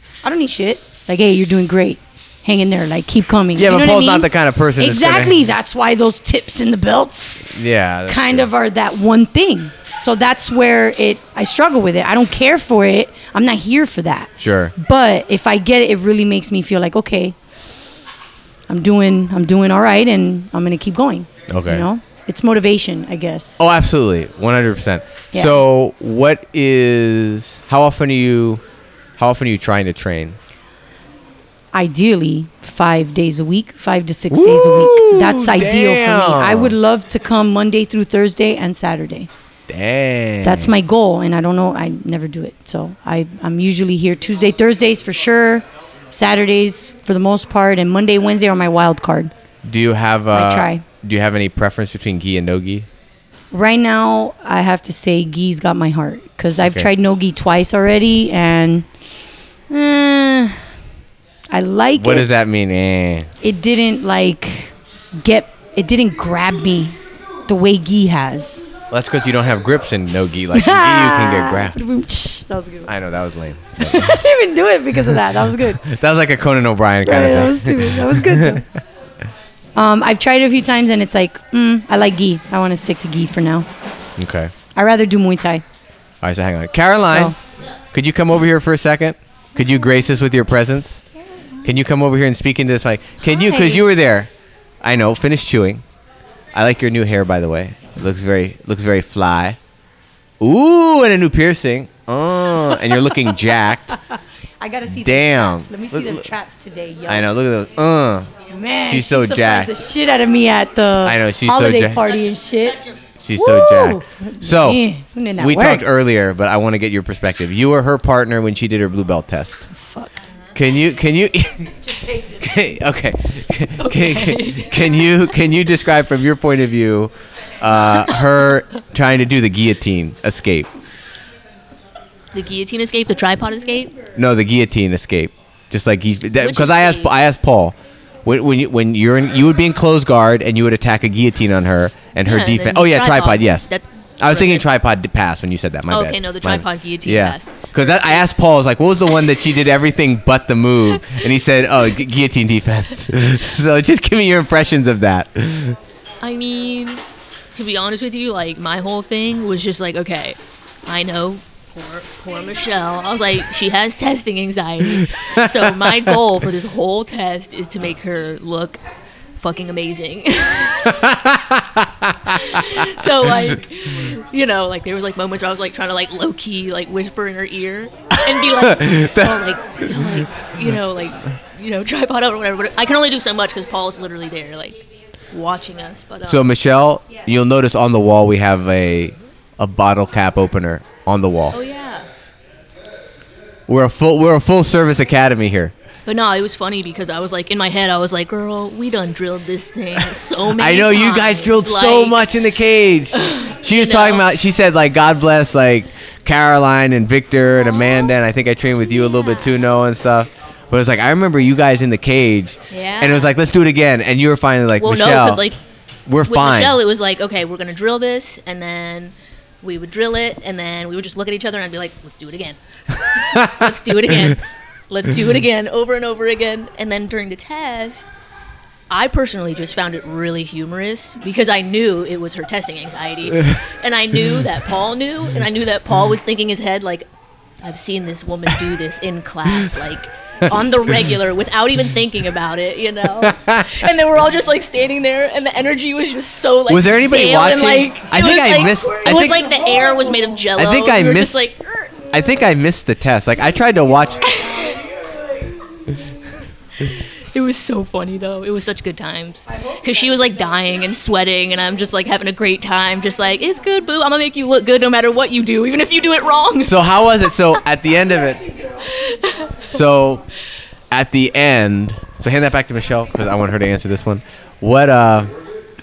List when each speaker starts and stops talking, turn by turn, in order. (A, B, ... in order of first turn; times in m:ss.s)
0:00.2-0:07.5 A
0:03.5-0:05.4 B
0:07.5-0:08.5 B
0:08.1-0:17.3 A
0:14.4-0:14.7 B
0:18.7-0:23.6 A
0:21.5-0:21.9 B
0:23.6-0:28.6 B
0:25.3-0:25.6 A
0:29.2-0:30.4 B
0:31.7-0:39.3 A
0:34.3-0:36.7 B
0:39.7-0:40.7 B
0:40.4-0:49.3 A
0:49.6-0:52.9 B
0:50.3-0:50.8 A
0:53.5-0:58.9 A
0:56.6-0:56.9 B
0:59.7-1:00.6 A
1:01.5-1:02.3 A
1:02.0-1:03.3 B
1:03.4-1:08.6 A
1:08.9-1:11.8 B
1:10.5-1:12.9 A
1:12.8-1:14.2 B
1:13.8-1:15.8 A
1:15.8-1:18.6 B
1:17.0-1:18.6 A
1:19.7-1:23.7 A
1:24.2-1:24.5 B
1:24.7-1:25.6 A
1:26.2-1:27.3 B
1:27.9-1:31.0 B
1:31.6-1:34.3 B
1:33.2-1:33.8 A
1:34.8-1:35.8 B
1:36.5-1:39.6 B
1:40.4-1:44.0 B
1:44.1-1:47.3 A
1:44.9-1:46.2 B
1:47.1-1:48.3 B
1:48.5-1:55.8 A
1:48.9-1:49.7 B
1:51.0-1:52.1 B
1:53.2-1:54.8 B
1:55.4-1:59.6 B
1:59.7-2:00.2 A
2:00.5-2:01.9 B
2:02.1-2:02.4 A
2:02.4-2:10.7 B
2:03.8-2:04.8 C
2:12.3-2:14.0 C
2:14.1-2:23.7 B
2:16.4-2:17.1 C
2:22.2-2:24.6 C
2:24.2-2:35.8 B
2:25.9-2:28.2 C
2:36.2-2:37.0 C
2:37.5-2:48.8 C
2:45.4-2:46.2 B
2:49.4-2:51.1 C
2:50.8-2:52.8 B
2:52.3-3:06.4 C
2:58.2-3:00.2 B
3:06.2-3:11.6 B
3:11.5-3:12.0 C
3:13.7-3:15.7 B
3:16.0-3:22.2 C
3:20.5-3:35.4 B
3:23.2-3:24.2 C
3:32.7-3:33.3 C
3:34.8-3:35.6 C
3:36.1-3:36.8 B
3:36.3-3:48.1 C
3:43.2-3:43.7 B
3:48.9-3:57.0 C
3:57.6-4:12.0 C
4:03.2-4:03.9 B
4:06.7-4:09.6 B
4:10.6-4:11.4 B
4:12.1-4:14.4 B
4:14.2-4:14.9 C
4:16.8-4:26.8 C
4:26.6-4:28.5 B
4:28.8-4:29.6 C
4:29.7-4:30.2 B
4:30.9-4:35.3 B